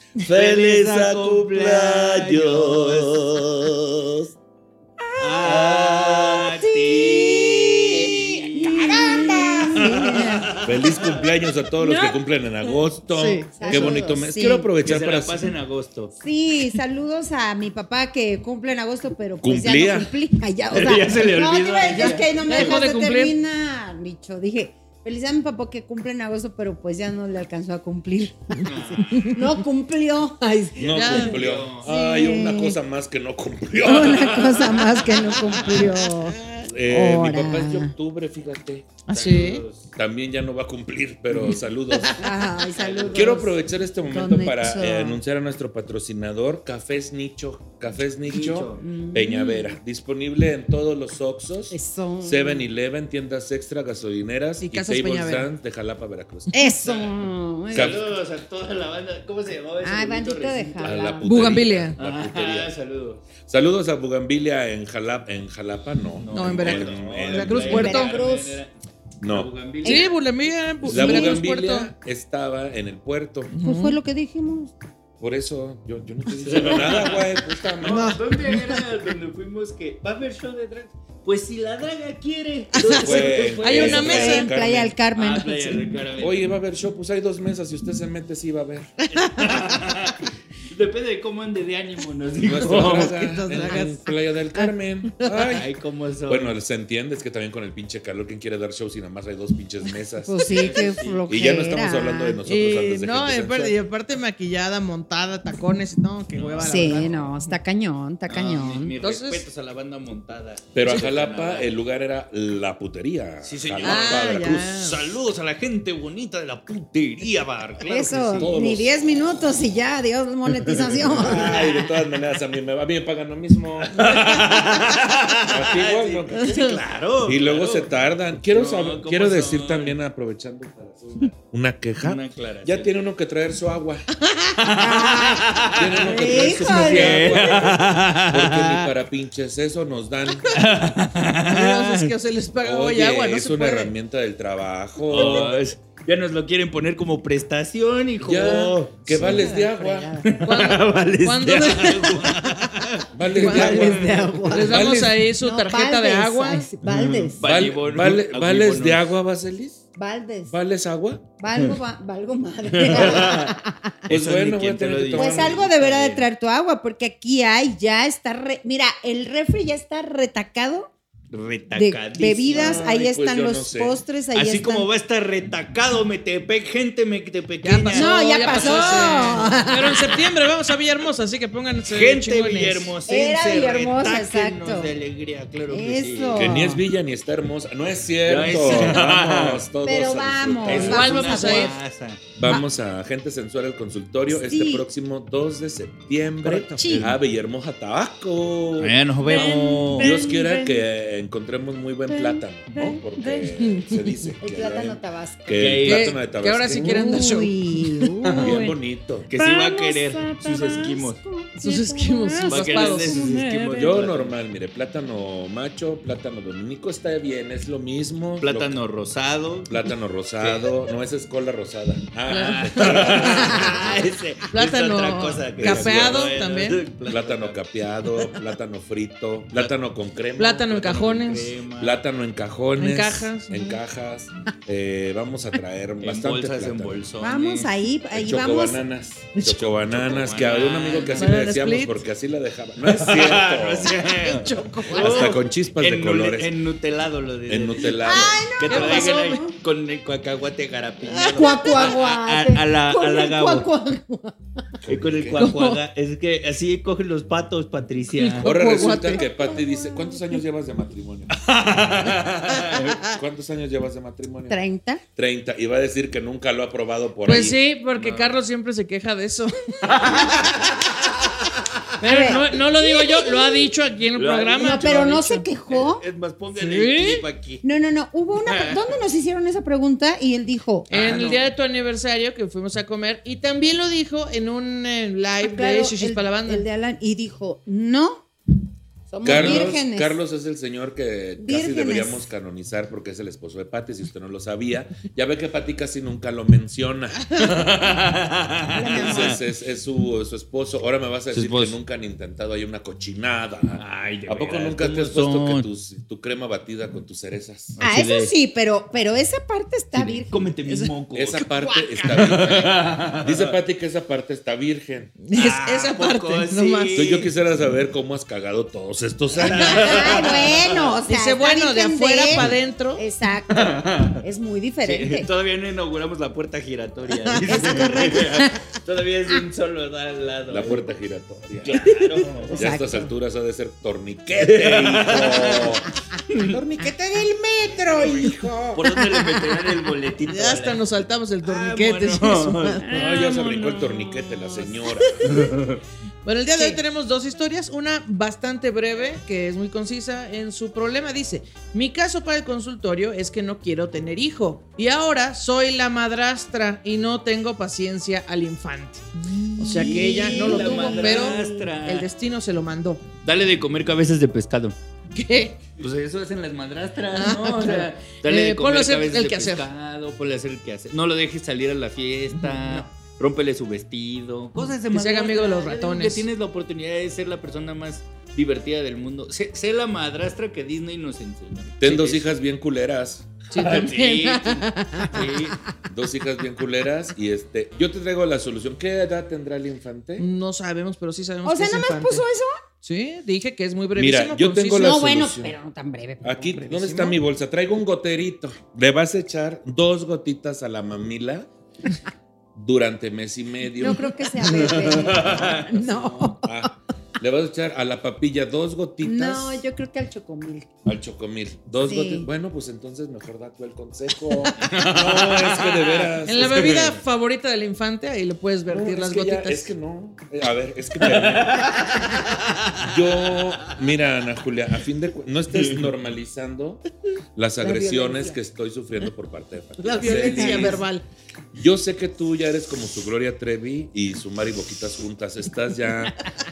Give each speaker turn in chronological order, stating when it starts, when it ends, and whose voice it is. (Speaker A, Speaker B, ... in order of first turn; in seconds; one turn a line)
Speaker A: 0.2-3.5
Speaker B: 0.2-4.3
Speaker C: 5.0-10.6
Speaker A: 5.2-11.2
Speaker B: 5.4-6.4
Speaker B: 10.6-15.5
Speaker D: 13.1-13.9
Speaker C: 13.5-14.7
Speaker A: 14.8-16.1
Speaker C: 16.2-31.3
Speaker B: 19.4-20.1
Speaker A: 20.7-22.8
Speaker D: 21.9-23.3
Speaker A: 28.6-29.4
Speaker D: 29.1-29.3
Speaker B: 30.8-35.8
Speaker A: 30.8-31.9
Speaker D: 30.9-31.4
Speaker C: 31.8-32.8
Speaker C: 33.8-37.9
Speaker D: 35.5-36.6
Speaker A: 35.7-35.9
Speaker B: 36.6-38.9
Speaker D: 39.1-39.6
Speaker A: 39.1-39.9
Speaker B: 40.0-42.3
Speaker C: 42.1-45.2
Speaker A: 42.7-43.4
Speaker B: 43.1-56.5
Speaker A: 48.3-48.8
Speaker C: 48.8-49.8
Speaker C: 51.7-52.7
Speaker D: 54.6-55.5
Speaker C: 56.5-58.0
Speaker A: 56.8-60.8
Speaker B: 57.7-58.0
Speaker C: 59.8-61.3
Speaker B: 60.8-62.7
Speaker D: 61.2-62.0
Speaker A: 62.0-63.2
Speaker B: 63.4-68.0
Speaker A: 66.2-70.1
Speaker D: 66.3-68.1
Speaker C: 67.7-68.6
Speaker B: 69.2-69.5
Speaker C: 69.8-70.1
Speaker D: 69.8-71.9
Speaker B: 70.8-73.5
Speaker C: 70.9-71.4
Speaker D: 73.5-74.0
Speaker C: 73.6-74.7
Speaker B: 75.2-78.2
Speaker A: 76.4-84.4
Speaker D: 77.9-78.5
Speaker D: 82.8-84.5
Speaker B: 82.9-84.9
Speaker C: 83.8-85.8
Speaker A: 85.2-86.5
Speaker B: 86.2-88.9
Speaker A: 89.1-93.2
Speaker D: 89.1-89.8
Speaker B: 92.4-95.7
Speaker D: 92.9-94.1
Speaker D: 95.2-95.5
Speaker A: 95.5-96.5
Speaker B: 96.3-100.6
Speaker C: 100.2-102.4
Speaker A: 100.4-101.2
Speaker B: 101.3-103.8
Speaker D: 102.4-107.4
Speaker A: 106.3-107.0
Speaker C: 106.6-108.9
Speaker A: 108.3-111.7
Speaker D: 109.0-109.4
Speaker B: 110.7-114.8
Speaker A: 113.4-118.5
Speaker D: 113.8-115.0
Speaker C: 117.8-121.6
Speaker B: 118.2-119.3
Speaker A: 120.9-121.8
Speaker B: 121.1-134.1
Speaker A: 123.8-127.9
Speaker A: 128.5-130.0
Speaker A: 132.0-132.9
Speaker A: 134.6-138.9
Speaker C: 134.8-137.3
Speaker B: 135.7-140.5
Speaker A: 140.5-142.1
Speaker D: 141.4-143.9
Speaker B: 142.6-145.6
Speaker A: 145.1-149.5
Speaker B: 148.2-150.2
Speaker C: 149.1-150.3
Speaker A: 150.2-154.6
Speaker D: 150.4-152.4
Speaker B: 153.1-154.1
Speaker C: 153.3-157.4
Speaker D: 153.3-153.8
Speaker D: 154.5-156.7
Speaker B: 154.7-155.2
Speaker A: 156.9-159.0
Speaker B: 157.4-159.8
Speaker C: 159.9-160.5
Speaker B: 160.5-161.2
Speaker C: 161.4-164.0
Speaker A: 162.7-166.2
Speaker B: 164.1-166.2
Speaker C: 165.1-170.9
Speaker A: 171.3-172.8
Speaker C: 171.7-174.9
Speaker B: 172.5-173.9
Speaker A: 174.3-179.5
Speaker D: 177.6-182.9
Speaker C: 177.9-180.2
Speaker A: 181.9-186.5
Speaker C: 183.1-184.9
Speaker C: 185.7-186.8
Speaker B: 186.3-191.1
Speaker A: 188.2-189.6
Speaker C: 189.8-191.7
Speaker A: 190.6-192.2
Speaker D: 190.7-191.8
Speaker B: 192.3-207.2
Speaker C: 194.3-194.8
Speaker D: 196.4-196.8
Speaker C: 196.8-197.1
Speaker A: 196.8-197.2
Speaker A: 198.8-200.4
Speaker D: 203.5-204.0
Speaker C: 204.4-205.7
Speaker A: 205.6-206.2
Speaker D: 205.8-208.7
Speaker C: 206.7-208.7
Speaker A: 208.2-208.7
Speaker B: 208.4-209.3
Speaker A: 209.3-211.2
Speaker C: 210.9-212.6
Speaker D: 211.6-213.7
Speaker A: 212.4-214.3
Speaker B: 213.7-218.7
Speaker A: 218.4-220.8
Speaker B: 219.7-224.1
Speaker D: 222.3-223.9
Speaker A: 222.3-227.6
Speaker D: 224.5-226.8
Speaker B: 225.5-226.3
Speaker B: 227.1-237.0
Speaker D: 230.4-231.5
Speaker A: 230.8-232.0
Speaker D: 232.8-233.8
Speaker A: 236.0-237.7
Speaker C: 237.2-238.8
Speaker B: 238.1-243.9
Speaker A: 239.5-241.5
Speaker D: 241.1-242.0
Speaker A: 242.8-253.7
Speaker D: 244.2-245.3
Speaker B: 244.9-246.5
Speaker B: 247.5-248.6
Speaker C: 248.0-249.5
Speaker D: 248.6-249.4
Speaker D: 251.1-251.9
Speaker C: 251.3-254.3
Speaker B: 254.8-255.4
Speaker A: 254.9-258.5
Speaker D: 255.4-255.8
Speaker D: 258.1-259.6
Speaker B: 258.4-261.5
Speaker C: 259.5-260.2
Speaker A: 261.3-263.0
Speaker D: 262.6-263.2
Speaker B: 263.1-264.6
Speaker C: 264.5-265.0
Speaker B: 265.1-267.6
Speaker D: 267.2-270.5
Speaker A: 267.9-268.4
Speaker A: 269.9-270.7
Speaker D: 272.0-275.4
Speaker C: 272.0-273.7
Speaker A: 274.1-275.0
Speaker C: 274.6-276.0
Speaker A: 275.7-277.6
Speaker D: 276.5-277.2
Speaker C: 277.6-280.9
Speaker A: 278.4-278.9
Speaker D: 280.9-286.6
Speaker A: 280.9-281.5
Speaker C: 285.4-288.2
Speaker C: 289.1-290.2
Speaker B: 289.2-297.5
Speaker A: 289.3-289.7
Speaker C: 291.4-292.2
Speaker A: 297.4-299.4
Speaker C: 298.7-299.4
Speaker B: 298.9-307.8
Speaker A: 301.3-301.8
Speaker A: 303.7-305.7
Speaker A: 307.8-308.3
Speaker C: 307.8-310.9
Speaker A: 309.9-311.4
Speaker B: 311.1-315.1
Speaker C: 311.4-312.2
Speaker A: 312.0-313.6
Speaker D: 315.2-317.1
Speaker A: 315.3-317.3
Speaker B: 316.9-320.1
Speaker A: 319.4-320.9
Speaker C: 319.7-325.3
Speaker D: 321.1-323.0
Speaker A: 323.5-324.2
Speaker A: 324.8-330.8
Speaker D: 327.3-327.9
Speaker C: 327.4-328.5
Speaker B: 330.5-331.8
Speaker A: 331.6-332.6
Speaker C: 332.4-333.1
Speaker B: 332.5-335.9
Speaker A: 334.4-336.6
Speaker B: 336.4-337.0
Speaker C: 336.8-339.2
Speaker B: 337.9-338.5
Speaker A: 338.7-340.9
Speaker D: 340.3-343.6
Speaker A: 341.4-343.1
Speaker B: 342.9-345.4
Speaker D: 345.1-345.5
Speaker A: 345.2-345.8
Speaker D: 346.2-363.0
Speaker C: 346.6-346.8
Speaker C: 359.6-361.7
Speaker A: 359.6-362.1
Speaker A: 363.2-364.8
Speaker D: 365.1-365.6
Speaker A: 365.8-382.3
Speaker D: 367.1-369.6
Speaker D: 372.4-372.8
Speaker D: 374.9-376.2
Speaker B: 381.8-383.3
Speaker D: 383.5-385.3
Speaker A: 383.5-385.6
Speaker B: 385.9-390.3
Speaker D: 390.2-392.2
Speaker C: 391.4-392.6
Speaker D: 392.8-395.0
Speaker B: 393.9-395.5
Speaker C: 394.8-397.1
Speaker B: 396.2-401.5
Speaker B: 402.5-409.6
Speaker C: 403.8-406.7
Speaker A: 404.4-405.7
Speaker C: 409.0-410.7
Speaker B: 410.8-416.9
Speaker C: 411.7-412.3
Speaker A: 414.6-417.0
Speaker D: 416.2-419.7
Speaker B: 418.7-421.9
Speaker A: 421.0-423.4
Speaker B: 422.8-426.8
Speaker A: 425.5-425.9
Speaker B: 427.4-430.8
Speaker C: 427.6-428.4
Speaker D: 429.8-431.0
Speaker C: 430.0-430.8
Speaker B: 431.5-436.2